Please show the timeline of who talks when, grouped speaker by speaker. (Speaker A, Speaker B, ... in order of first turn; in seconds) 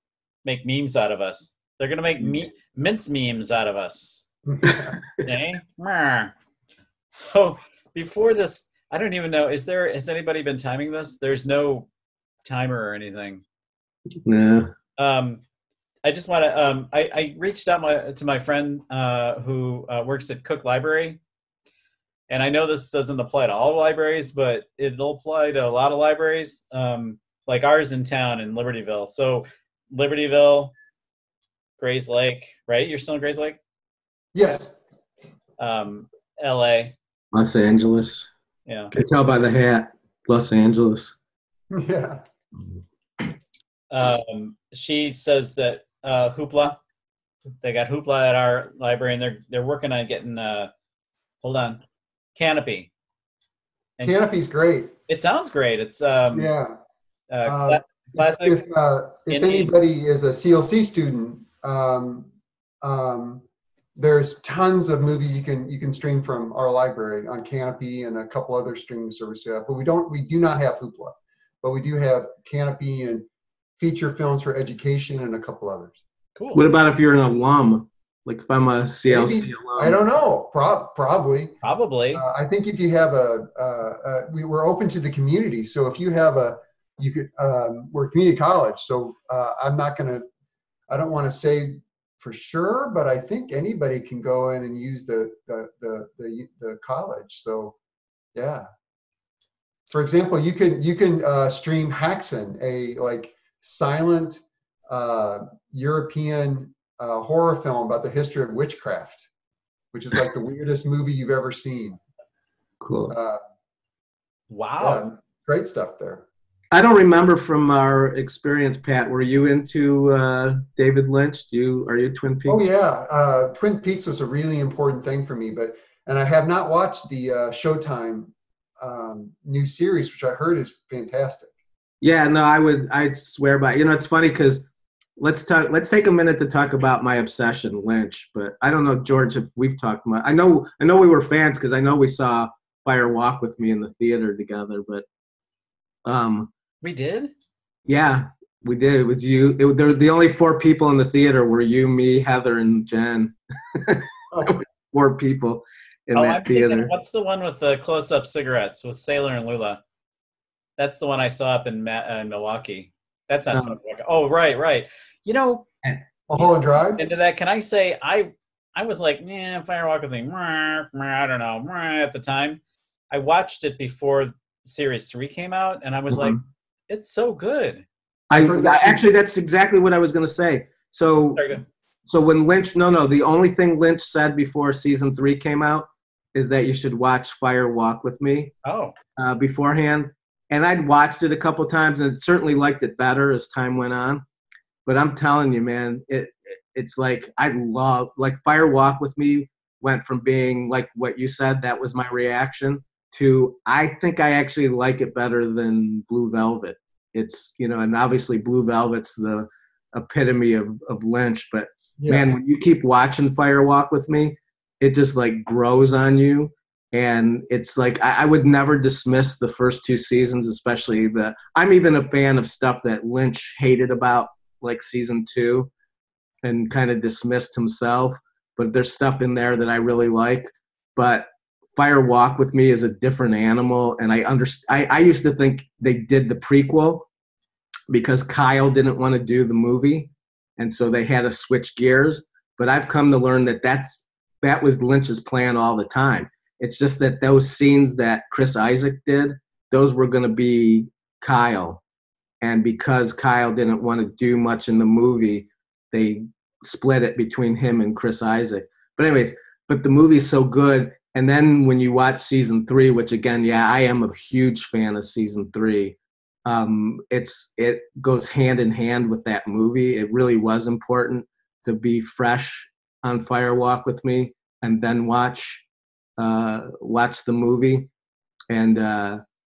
Speaker A: 0.4-4.2, 5.2-6.3, 7.1-11.9, 12.4-13.4, 15.0-15.4, 16.0-21.2, 22.3-30.7, 31.8-33.6, 35.6-37.0, 38.7-39.0, 43.9-46.8, 47.6-50.7, 51.4-51.8, 52.3-52.9, 55.1-56.5, 57.3-58.6, 59.3-59.7, 76.3-76.6, 81.6-82.2, 114.5-115.0, 146.8-147.3, 156.2-159.8, 160.8-165.7, 167.0-172.6, 173.1-177.8, 181.3-181.6, 188.6-188.9
Speaker B: 4.5-5.0, 34.3-34.8, 41.7-42.2, 54.0-54.9, 56.3-56.8, 57.4-62.3, 62.8-63.4, 64.0-73.3, 73.8-76.0, 79.1-81.5, 82.1-90.2, 90.9-97.7, 98.3-98.7, 99.9-109.3, 109.9-112.0, 113.1-113.4, 114.8-116.2, 122.5-131.5, 154.3-154.6, 166.3-167.0, 178.3-179.0, 212.0-212.3
Speaker C: 14.2-14.7, 37.3-38.3, 38.9-41.1, 76.5-80.0, 112.8-113.1, 116.7-122.7, 132.0-134.7, 135.2-145.0, 146.0-146.5, 147.8-156.9, 163.5-163.8, 176.1-176.4, 178.3-181.4, 182.1-188.5, 189.2-194.2, 194.8-225.7, 226.4-237.1, 237.9-251.8, 252.4-275.6, 276.2-277.9, 278.5-279.2